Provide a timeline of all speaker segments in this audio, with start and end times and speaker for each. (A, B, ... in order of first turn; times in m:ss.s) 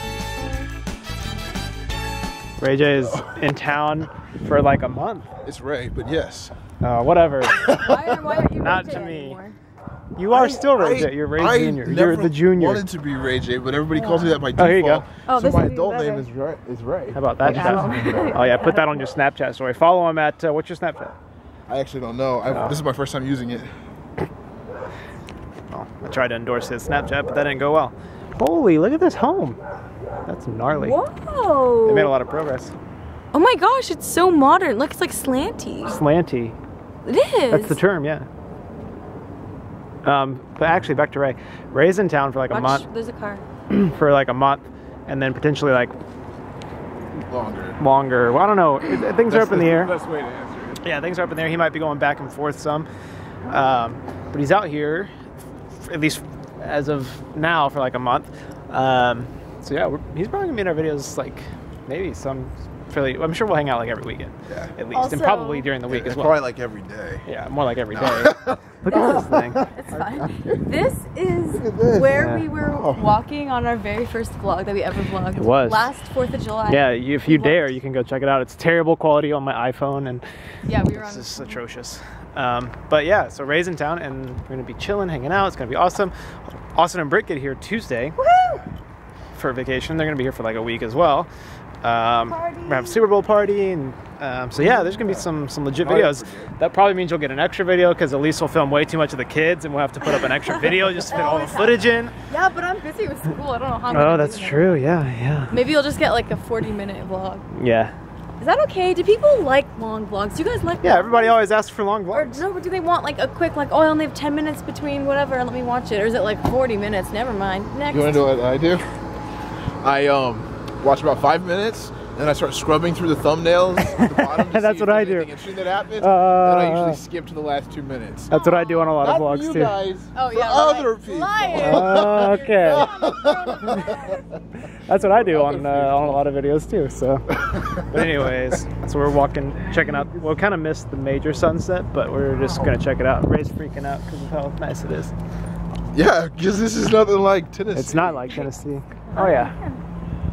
0:02.6-0:05.3 A
0:03.0-0:03.4 B
0:05.4-0:06.5 B
0:06.8-0:07.9 A
0:07.6-0:09.6 C
0:08.6-0:09.4 A
0:10.2-0:12.8 A
0:10.3-0:18.4 B
0:13.9-0:14.4 C
0:14.6-0:15.0 A
0:15.2-0:16.3 C
0:17.1-0:21.1 A
0:17.5-0:19.0 C
0:21.7-0:23.8 B
0:22.5-0:22.8 A
0:25.7-0:29.6 A
0:30.2-0:31.0 A
0:30.7-0:32.1 C
0:31.9-0:32.7 A
0:33.3-0:36.0 C
0:35.8-0:36.6 A
0:37.0-0:37.8 C
0:37.5-0:38.3 A
0:40.0-0:42.8 A
0:42.5-0:43.4 C
0:43.7-0:46.0 A
0:47.3-0:47.8 B
0:47.8-0:49.9 A
0:49.3-0:50.8 B
0:50.8-0:52.9 A
0:53.5-0:55.1 A
0:55.8-1:06.4 A
1:04.9-1:05.7 C
1:05.9-1:07.2 B
1:07.2-1:09.6 A
1:07.9-1:10.6 B
1:08.9-1:17.7 C
1:11.5-1:13.0 B
1:12.1-1:12.4 A
1:15.4-1:15.9 A
1:16.7-1:20.2 A
1:20.7-1:21.6 C
1:21.0-1:28.2 A
1:28.2-1:28.6 C
1:29.3-1:31.3 A
1:31.8-1:42.1 A
1:32.3-1:33.0 C
1:34.6-1:36.5 B
1:40.5-1:44.8 C
1:43.9-1:45.6 A
1:45.5-1:47.4 C
1:47.6-1:47.9 A
1:48.4-1:51.5 C
1:50.8-1:52.4 A
1:52.1-1:58.3 C
1:57.9-1:58.8 B
1:59.8-2:08.3 B
2:03.9-2:05.3 A
2:06.0-2:07.0 A
2:08.3-2:09.0 C
2:08.3-2:09.8 A
2:09.0-2:14.2 B
2:10.1-2:14.2 C
2:11.6-2:12.9 A
2:14.7-2:25.1 A
2:15.1-2:16.2 B
2:17.4-2:18.3 B
2:25.9-2:28.2 B
2:27.7-2:29.5 A
2:29.0-2:29.8 C